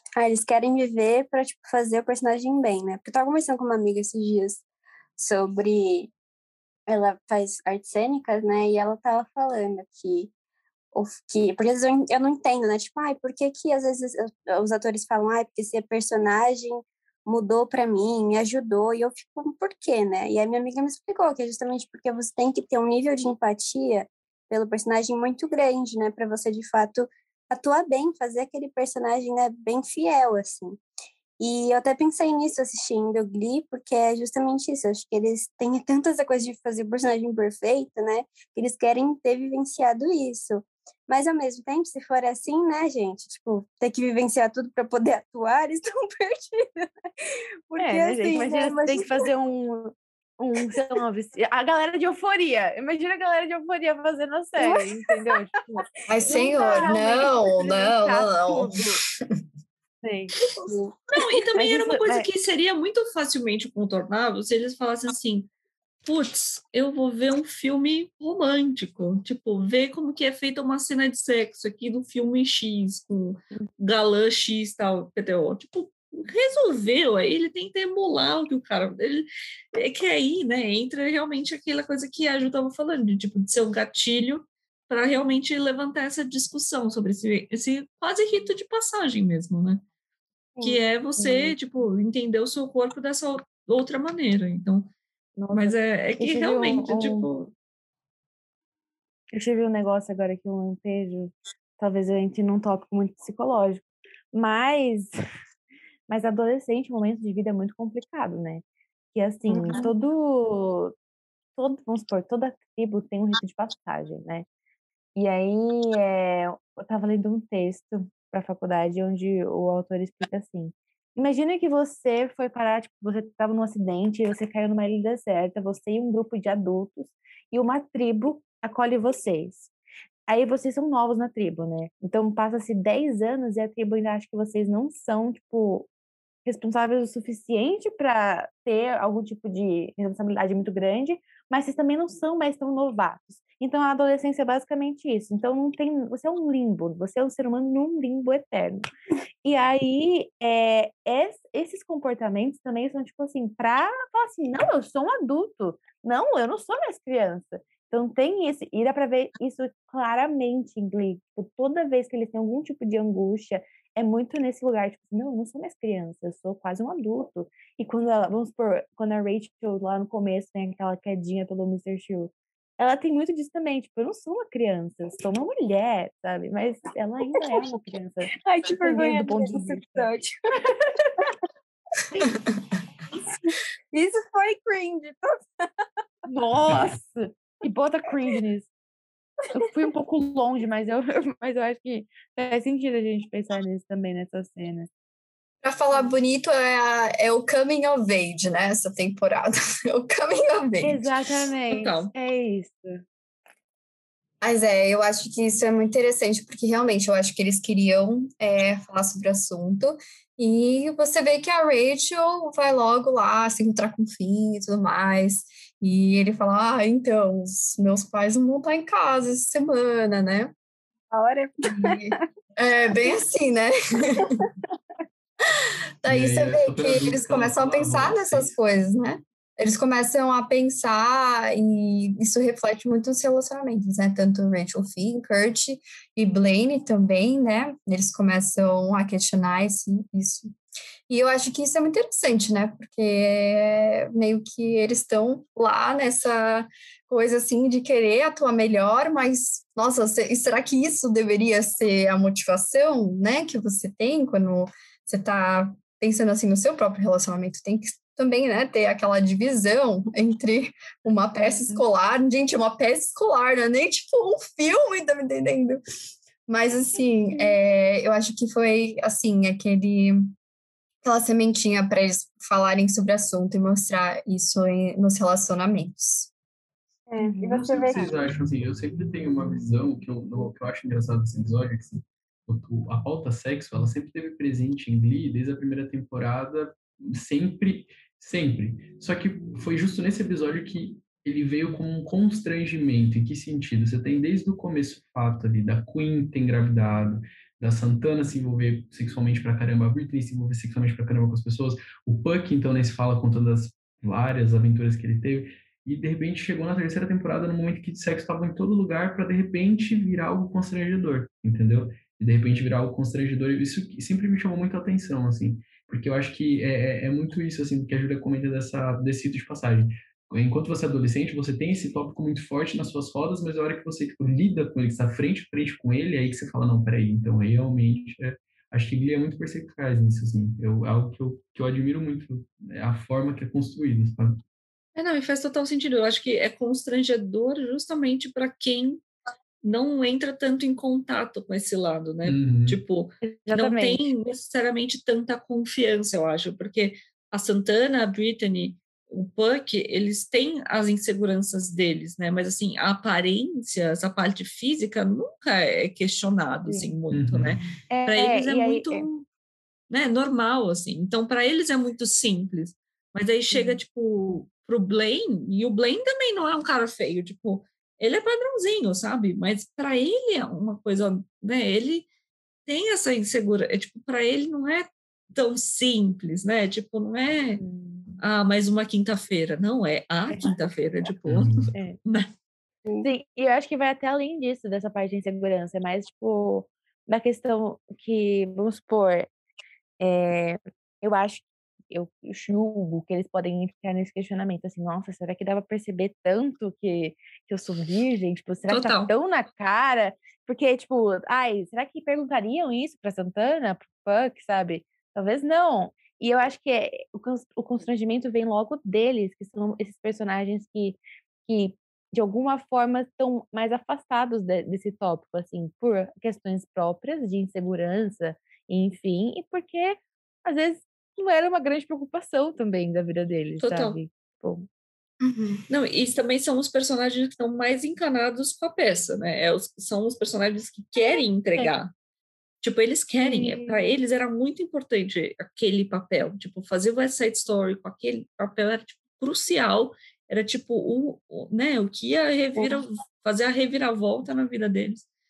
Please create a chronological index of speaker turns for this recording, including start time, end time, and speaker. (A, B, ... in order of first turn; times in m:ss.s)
0:00.2-0:04.6 A
0:05.2-0:06.1 A
0:06.9-0:10.3 A
0:10.9-0:30.8 A
0:31.4-0:46.9 A
0:47.7-0:49.2 A
0:47.8-0:59.0 B
0:56.1-0:58.8 C
0:56.2-0:57.1 A
1:00.0-1:00.3 B
1:00.6-1:01.0 A
1:01.2-1:05.5 D
1:01.6-1:02.3 B
1:06.0-1:29.8 D
1:30.6-1:34.9 D
1:35.4-1:37.3 B
1:35.5-1:37.5 D
1:39.3-1:45.1 B
1:46.1-1:50.9 B
1:49.5-1:49.9 A
1:51.6-1:54.5 B
1:55.2-2:09.7 B
2:10.3-2:15.9 B
2:16.4-2:28.9 B
2:29.4-3:00.1 B
2:58.4-3:01.3 A
3:03.4-3:05.7 A
3:06.3-3:08.7 B
3:09.5-3:14.9 B
3:15.6-3:21.0 C
3:20.8-3:23.0 B
3:21.7-3:22.1 D
3:24.4-3:40.5 C
3:41.1-3:42.2 A
3:41.6-3:44.4 C
3:44.2-3:44.4 A
3:46.0-4:00.5 C
3:46.1-3:48.5 E
4:01.1-4:25.8 C
4:26.5-4:30.3 C
4:31.0-4:36.3 C
4:37.1-4:38.1 A
4:37.2-4:37.6 B
4:37.5-5:34.4 E
5:35.0-5:39.0 D
5:39.6-5:59.2 D
5:42.2-5:42.8 E
5:43.2-5:44.1 B
5:56.7-5:56.9 B
5:57.1-5:57.7 E
5:57.9-5:59.1 B
5:59.9-6:12.1 D
6:12.7-6:17.6 D
6:17.6-6:18.2 B
6:18.2-6:22.3 D
6:21.3-6:21.7 E
6:23.0-6:29.3 B
6:30.0-7:04.7 B
6:38.7-6:39.1 D
7:03.6-7:04.0 D
7:05.2-7:05.6 C
7:05.7-7:11.9 D
7:12.6-7:25.1 D
7:13.2-7:14.0 B